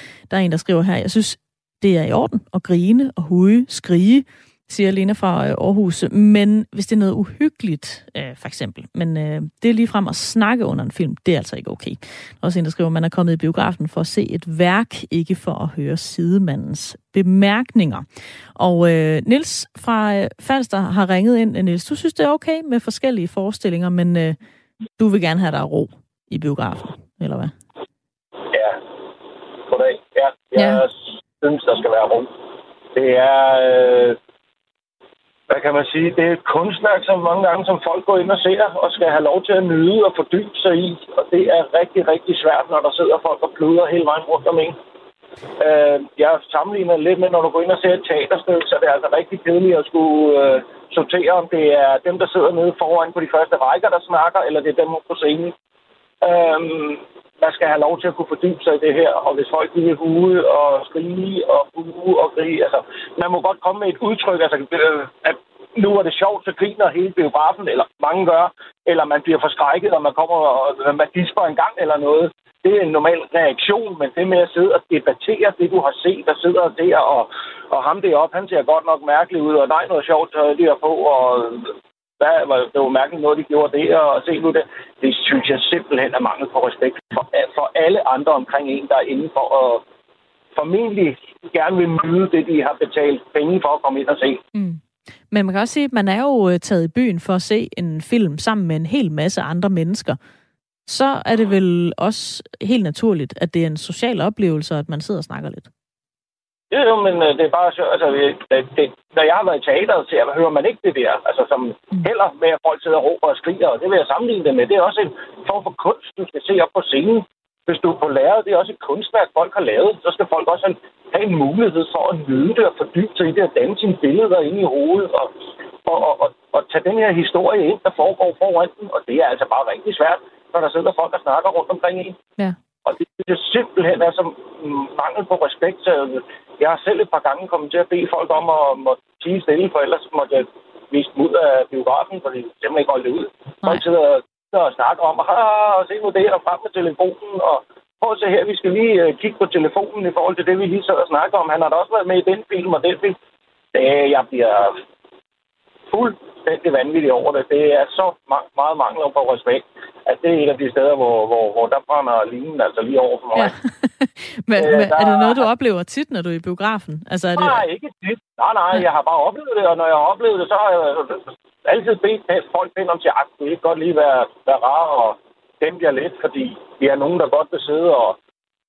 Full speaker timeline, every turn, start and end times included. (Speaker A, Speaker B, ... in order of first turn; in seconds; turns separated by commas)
Speaker A: 0.3-18.1, Speaker A: 18.6-24.4, Speaker A: 25.0-27.5, Speaker B: 28.5-28.8, Speaker B: 29.7-32.3, Speaker A: 30.6-30.9, Speaker B: 32.9-34.2, Speaker B: 35.5-44.8, Speaker B: 45.6-55.5, Speaker B: 56.2-89.8, Speaker B: 90.6-94.4, Speaker A: 94.5-100.2, Speaker A: 100.9-105.7, Speaker B: 106.7-125.3, Speaker B: 125.8-132.2, Speaker B: 132.9-153.2, Speaker B: 153.7-154.8, Speaker B: 155.9-163.5, Speaker A: 163.3-167.6, Speaker B: 164.6-165.4, Speaker B: 167.4-178.2